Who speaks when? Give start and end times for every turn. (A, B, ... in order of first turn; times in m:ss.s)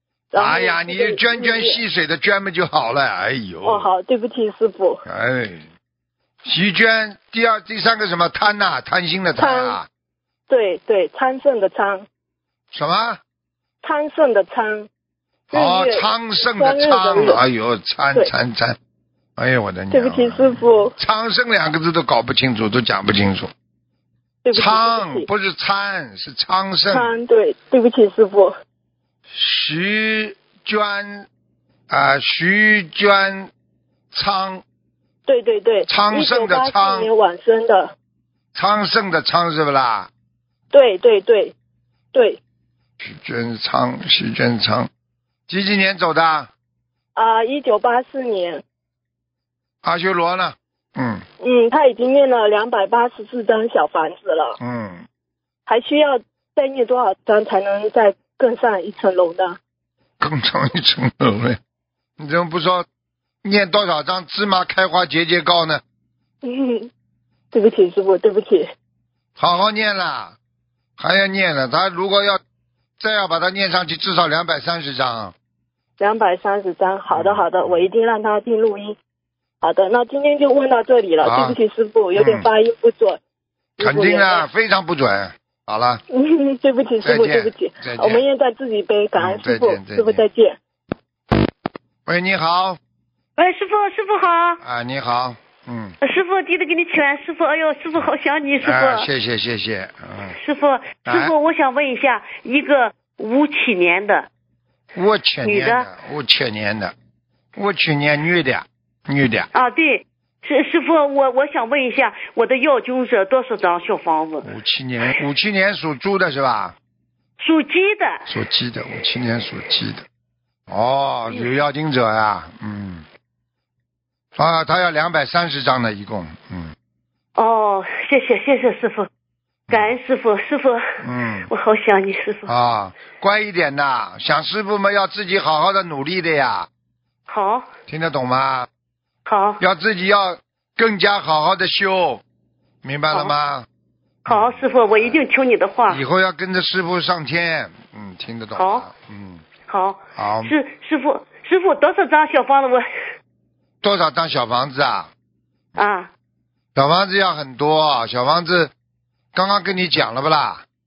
0:00.3-0:01.8 A
0:00.3-0:03.9 B
0:03.6-0:05.0 A
0:05.0-0:05.7 B
0:06.4-0:09.9 B
0:09.4-0:09.8 A
0:10.5-0:12.0 A
0:12.7-0:13.2 B
0:13.8-0:14.9 A
0:15.5-0:18.8 B
0:15.5-0:17.4 A
0:19.4-0:23.5 B
0:19.9-0:20.9 A
0:24.4-0:25.3 A
0:24.5-0:27.2 B
0:26.9-0:28.5 A
0:29.3-0:31.3 B
0:31.9-0:33.5 B
0:34.1-0:34.6 B
0:35.3-0:37.9 A
0:35.9-0:37.1 B
0:38.5-0:40.1 B
0:40.7-0:41.5 A
0:42.1-0:42.4 A
0:43.0-0:44.9 B
0:45.5-0:46.5 B
0:47.2-0:48.6 A
0:49.8-0:51.2 B
0:51.4-0:54.6 A
0:54.6-0:55.1 B
0:55.7-0:59.6 A
1:00.2-1:01.6 B
1:02.2-1:02.8 B
1:03.4-1:05.8 B
1:06.4-1:06.9 A
1:07.5-1:08.7 A
1:09.4-1:10.4 B
1:11.0-1:12.4 B
1:13.0-1:15.3 B
1:16.0-1:19.0 A
1:17.1-1:17.8 B
1:19.6-1:23.2 A
1:21.2-1:21.6 B
1:22.1-1:22.5 B
1:23.8-1:24.5 A
1:23.8-1:26.0 B
1:26.1-1:30.6 A
1:27.0-1:28.2 B
1:29.2-1:30.2 B
1:32.0-1:32.8 B
1:33.4-1:34.6 C
1:34.6-1:36.0 B
1:36.0-1:39.1 C
1:38.6-1:40.4 B
1:40.4-1:44.3 C
1:41.0-1:41.3 B
1:44.9-1:46.9 B
1:45.4-1:45.9 C
1:47.6-1:49.5 B
1:49.5-1:54.5 C
1:54.4-1:56.8 B
1:57.4-1:58.2 C
1:58.3-2:00.0 B
2:00.7-2:03.0 B
2:04.4-2:06.7 B
2:07.4-2:09.1 C
2:09.7-2:12.5 C
2:11.0-2:11.5 B
2:12.5-2:16.7 B
2:17.3-2:17.7 C
2:17.9-2:18.7 B
2:19.2-2:19.6 C
2:19.6-2:22.2 B
2:22.8-2:23.6 B
2:24.2-2:25.2 B
2:24.3-2:26.0 C
2:25.9-2:29.4 B
2:28.5-2:28.9 C
2:29.7-2:32.8 C
2:30.2-2:30.5 B
2:33.8-2:35.1 B
2:35.8-2:36.1 C
2:36.8-2:38.7 B
2:39.3-2:40.6 B